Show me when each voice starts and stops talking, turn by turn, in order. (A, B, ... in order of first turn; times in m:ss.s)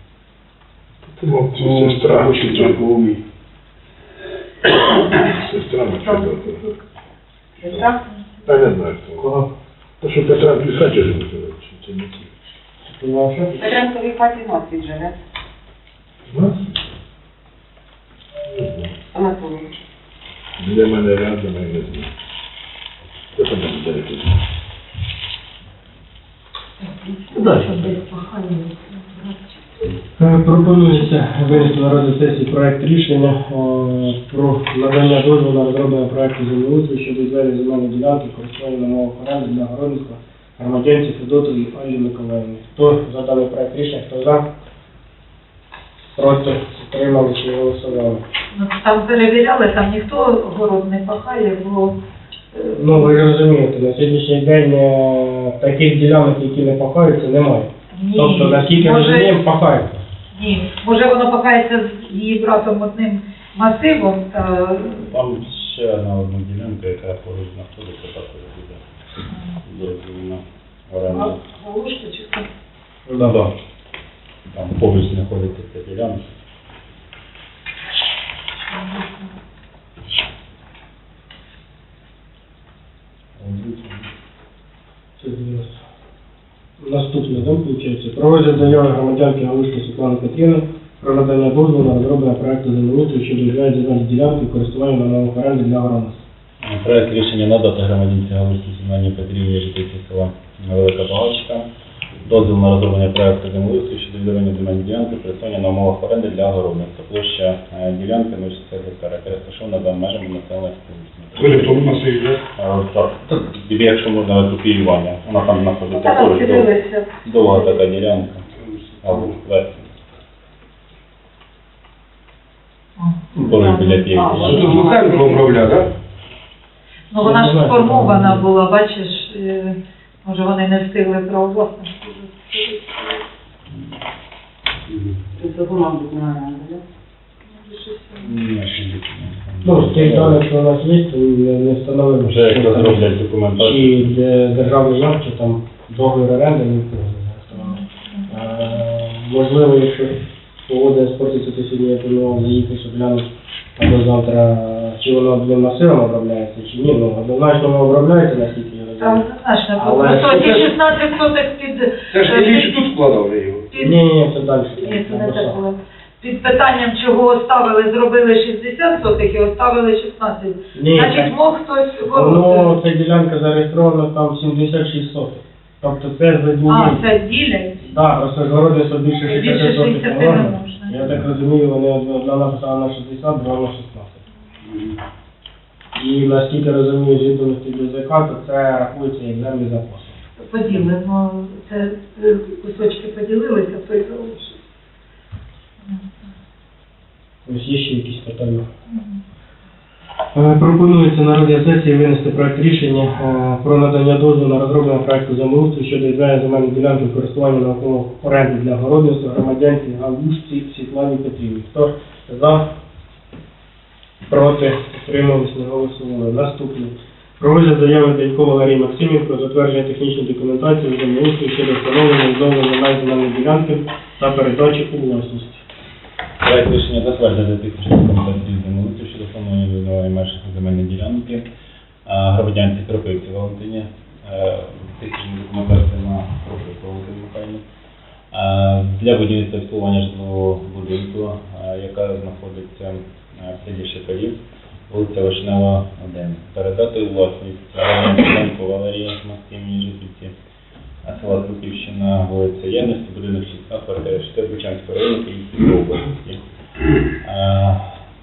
0:01.1-0:02.8 A
0:01.6-0:03.2 B
0:05.1-0:06.7 A
0:07.6-0:08.0 C
0:08.4-0:09.2 A
0:09.2-0:09.5 D
0:10.0-0:12.3 A
0:12.9-0:13.6 D
0:13.6-0:15.2 C
0:16.3-0:16.7 A
0:18.5-0:18.9 A
0:19.1-0:19.7 C
0:20.6-0:22.1 A
0:23.3-0:24.4 A
0:26.8-0:29.9 E
0:27.3-0:27.9 B
0:30.2-0:44.4 D
0:30.8-0:31.8 E
0:46.2-0:48.2 D
0:48.5-0:52.0 E
0:52.5-0:53.2 E
0:52.7-1:00.0 D
0:57.9-0:59.4 E
1:00.3-1:05.1 E
1:05.1-1:08.8 F
1:09.6-1:11.4 F
1:11.1-1:12.5 E
1:13.1-1:13.4 D
1:13.2-1:13.5 F
1:14.5-1:16.2 F
1:18.7-1:19.3 E
1:23.4-1:24.1 F
1:25.2-1:25.8 D
1:26.8-1:36.2 D
1:36.6-1:41.6 F
1:42.2-1:51.9 F
1:51.4-1:52.4 A
1:52.6-1:58.5 F
1:55.9-1:57.7 E
1:58.6-1:59.3 B
1:59.0-1:59.9 F
2:03.0-2:04.6 E
2:03.4-2:04.8 F
2:04.1-2:05.5 C
2:04.2-2:05.9 B
2:07.1-2:13.2 E
2:07.2-2:08.4 D
2:15.4-2:16.8 C
2:17.5-2:18.3 E
2:18.2-2:20.4 F
2:19.6-2:23.0 D
2:22.2-2:24.1 F
2:23.6-2:30.1 D
2:27.5-2:28.6 E
2:30.7-2:39.2 D
2:39.0-2:42.9 E
2:39.8-2:40.3 D
2:39.9-2:40.7 B
2:42.1-2:43.7 B
2:43.7-2:44.0 E
2:43.8-2:45.6 D
2:44.8-2:52.7 E
2:50.7-2:51.3 D
2:52.1-2:57.0 D
2:56.7-2:57.8 E
2:57.8-3:04.2 D
2:59.2-3:00.9 E
3:05.9-3:10.2 D
3:10.4-3:14.5 E
3:17.4-3:18.7 D
3:18.9-3:19.2 E
3:20.3-3:32.7 D
3:34.3-3:45.6 D
3:46.4-3:51.4 F
3:52.0-3:57.6 F
3:58.3-4:04.4 F
4:04.9-4:10.3 F
4:11.0-4:16.4 F
4:17.2-4:17.8 F